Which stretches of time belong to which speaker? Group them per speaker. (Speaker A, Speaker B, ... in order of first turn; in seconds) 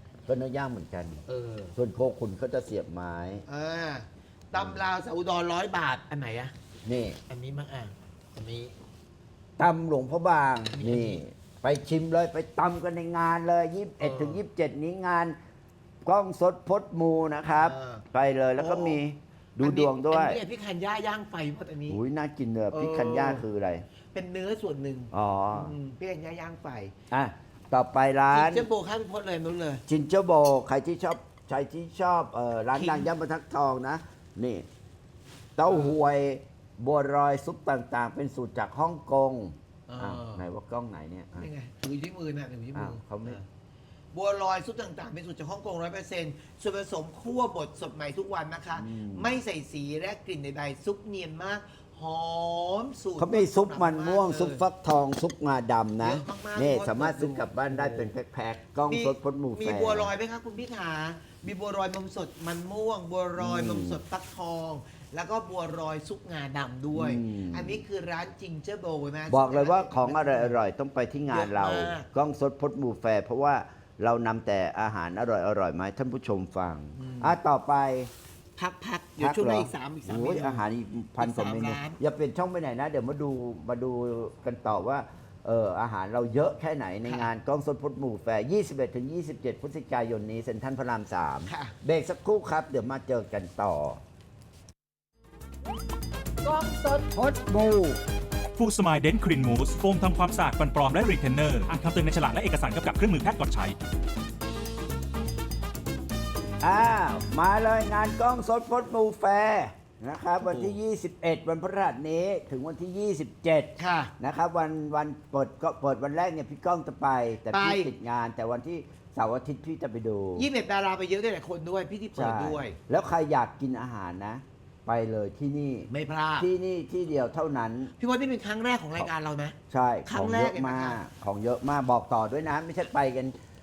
Speaker A: 0.2-1.2, 1.8-3.4, 6.8-7.2, 9.6-15.4, 16.0-20.4, 21.9-23.8, 25.1-25.7, 27.1-28.6, 29.9-34.6, 35.6-41.5, 42.7-43.4, 48.7-49.3, 53.2-60.1, 63.4-64.0, 66.9-67.8, 69.3-78.1, 79.2-94.0, 97.2-98.0, 106.6-120.5, 122.2-127.9, 129.7-133.3
Speaker B: 1.3-1.7, 3.5-6.5, 7.3-8.7, 10.7-11.2, 14.0-14.4, 17.5-18.0, 18.6-19.0, 19.6-22.0, 22.7-23.4, 24.1-26.9, 28.3-29.8, 32.7-33.1, 35.7-35.9, 39.9-40.5, 41.4-43.4, 44.1-54.6, 56.0-58.1, 58.9-70.6, 71.3-72.1, 77.0-77.4, 78.5-80.7, 81.2-82.0, 87.0-87.3, 91.5-91.7, 96.4-97.1, 110.4-110.7, 113.8-114.1, 117.5-117.9, 120.3-122.8, 125.9-126.5, 128.0-131.0
Speaker C: 98.5-103.8